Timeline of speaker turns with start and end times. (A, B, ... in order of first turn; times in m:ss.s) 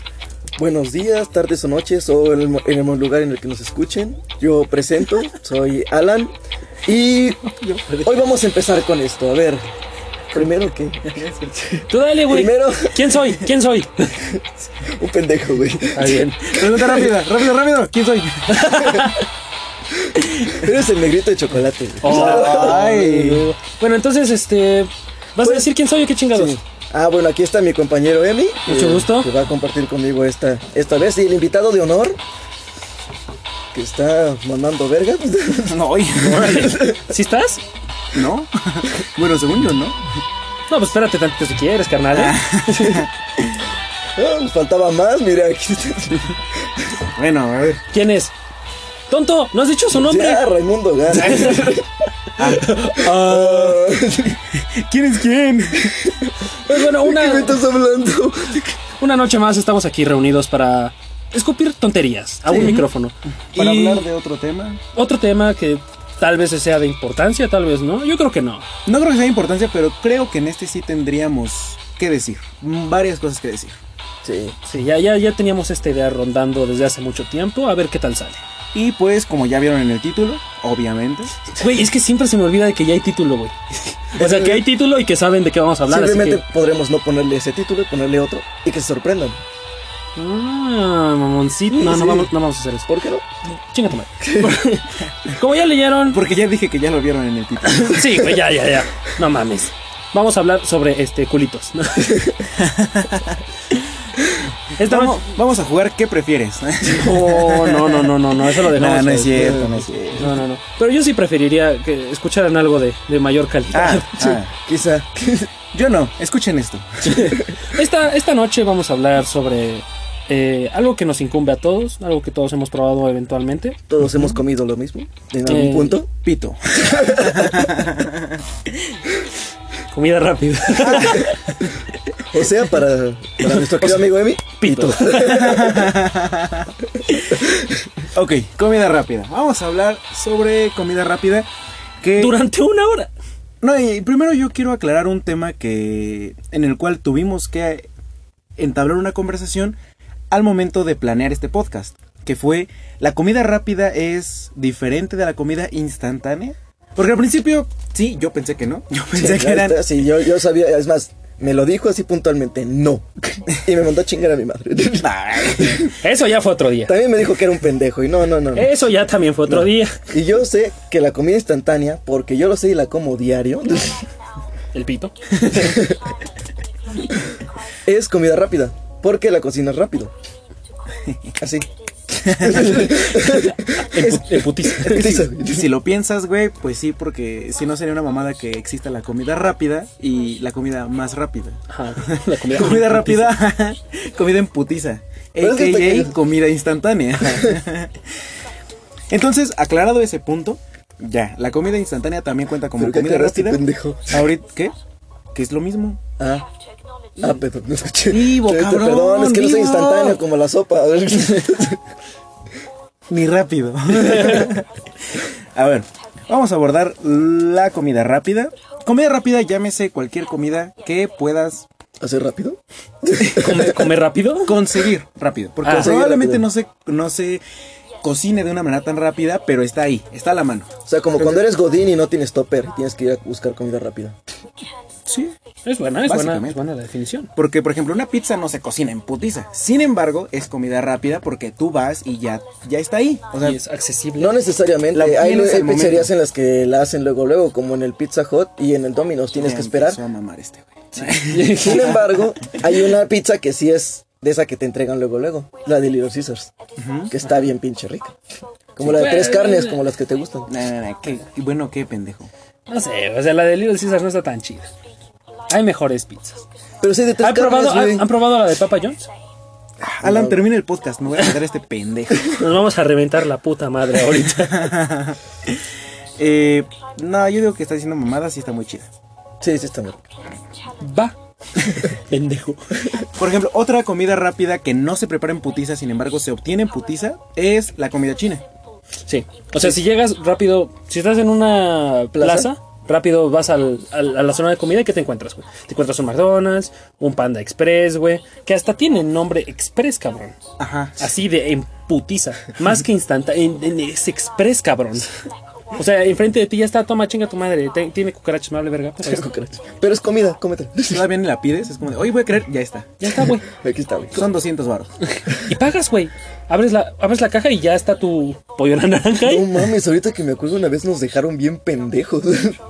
0:00.6-0:06.3 A
0:06.8-0:07.4 A
0:07.5-0:08.2 B
0:08.0-0:09.6 A
0:10.3-0:13.1 A
0:11.0-0:11.5 B
0:11.9-0:14.2 C
0:14.3-0:17.1 A
0:15.9-0:16.6 C
0:16.4-0:18.9 B
0:18.5-0:19.2 C
0:18.7-0:19.1 A
0:20.0-0:23.2 A
0:22.0-0:26.6 C
0:22.0-0:23.5 B
0:25.4-0:25.7 A
0:26.3-0:32.2 A
0:28.7-0:29.3 C
0:33.7-0:37.1 A
0:35.6-0:36.8 B
0:36.2-0:37.6 C
0:38.1-0:40.0 B
0:40.7-0:43.0 C
0:42.1-0:43.5 B
0:44.2-0:46.4 A
0:47.1-0:47.8 B
0:47.9-0:48.3 C
0:49.1-0:50.4 C
0:49.9-0:51.9 A
0:51.2-0:51.7 C
0:51.2-0:51.6 B
0:52.4-0:53.1 B
0:52.4-0:53.9 C
0:53.0-0:54.4 A
0:54.5-0:56.1 B
0:55.9-0:58.8 A
0:56.6-0:57.6 C
0:59.0-1:04.0 C
1:02.5-1:02.9 B
1:02.5-1:02.8 A
1:03.5-1:04.8 B
1:04.9-1:08.6 C
1:08.8-1:13.8 B
1:14.2-1:14.6 A
1:14.6-1:18.4 C
1:18.7-1:21.4 B
1:21.5-1:26.4 C
1:24.2-1:24.7 A
1:25.8-1:29.4 A
1:30.2-1:33.0 C
1:31.7-1:32.3 A
1:32.9-1:33.3 A
1:33.5-1:36.2 C
1:34.2-1:34.8 A
1:36.1-1:38.2 B
1:37.6-1:42.3 C
1:42.0-1:42.3 A
1:42.6-1:43.4 B
1:44.8-1:45.3 C
1:44.8-1:50.4 B
1:46.8-1:54.4 C
1:49.4-1:49.7 A
1:53.7-1:54.5 B
1:54.5-1:55.5 A
1:55.7-1:57.4 B
1:57.0-2:03.8 C
2:03.9-2:06.1 A
2:05.4-2:06.0 C
2:06.2-2:08.4 B
2:06.8-2:07.7 A
2:09.9-2:11.5 C
2:12.2-2:15.9 A
2:13.4-2:13.9 C
2:14.6-2:15.8 C
2:15.1-2:16.7 B
2:17.3-2:17.9 A
2:18.1-2:21.4 B
2:22.0-2:22.4 B
2:22.2-2:23.1 C
2:23.6-2:27.9 B
2:28.6-2:29.8 B
2:30.3-2:40.0 B
2:39.1-2:45.9 A
2:45.0-2:45.9 B
2:46.0-2:46.9 C
2:46.8-2:48.8 A
2:48.5-2:50.0 C
2:49.5-2:54.0 A
2:54.7-2:55.9 C
2:55.5-2:56.0 A
2:57.8-3:00.1 A
3:01.0-3:01.3 B
3:01.4-3:01.7 A
3:02.2-3:03.0 B
3:02.3-3:04.0 A
3:02.6-3:05.2 C
3:04.0-3:18.0 B
3:04.8-3:05.8 A
3:11.7-3:13.4 C
3:15.4-3:16.1 A
3:17.3-3:17.6 A
3:19.1-3:24.8 B
3:22.8-3:24.3 A
3:25.3-3:26.0 B
3:26.2-3:26.5 A
3:27.2-3:31.8 A
3:28.1-3:30.2 B
3:33.1-3:41.6 B
3:42.0-3:43.9 A
3:43.2-3:44.6 C
3:44.4-3:47.4 B
3:45.6-3:45.9 C
3:45.7-3:46.4 A
3:48.0-3:51.4 B
3:50.8-3:54.2 A
3:55.0-3:55.3 B
3:55.6-3:57.3 C
3:56.0-3:56.6 B
3:57.3-4:03.6 B
4:03.4-4:04.4 C
4:04.2-4:10.0 A
4:04.9-4:06.1 B
4:09.3-4:12.6 B
4:11.0-4:12.0 C
4:11.5-4:16.5 A
4:16.8-4:17.1 B
4:17.1-4:18.1 A
4:18.8-4:20.5 A
4:18.8-4:19.8 C
4:20.5-4:22.3 B
4:22.7-4:24.7 C
4:25.5-4:26.4 C
4:26.8-4:28.1 A
4:27.2-4:29.1 C
4:29.8-4:32.4 B
4:30.0-4:30.4 A
4:32.3-4:34.7 C
4:34.3-4:35.6 B
4:36.2-4:38.9 B
4:39.4-4:40.0 A
4:40.8-4:41.1 C
4:41.8-4:43.0 C
4:43.1-4:48.4 B
4:49.0-5:00.4 C
4:52.1-4:52.5 A
5:00.6-5:01.0 B
5:01.0-5:05.1 C
5:05.7-5:09.3 C
5:09.0-5:11.1 A
5:10.9-5:13.0 B
5:13.0-5:13.4 C
5:13.4-5:14.3 A
5:14.1-5:14.9 B
5:15.0-5:19.7 C
5:19.2-5:22.6 A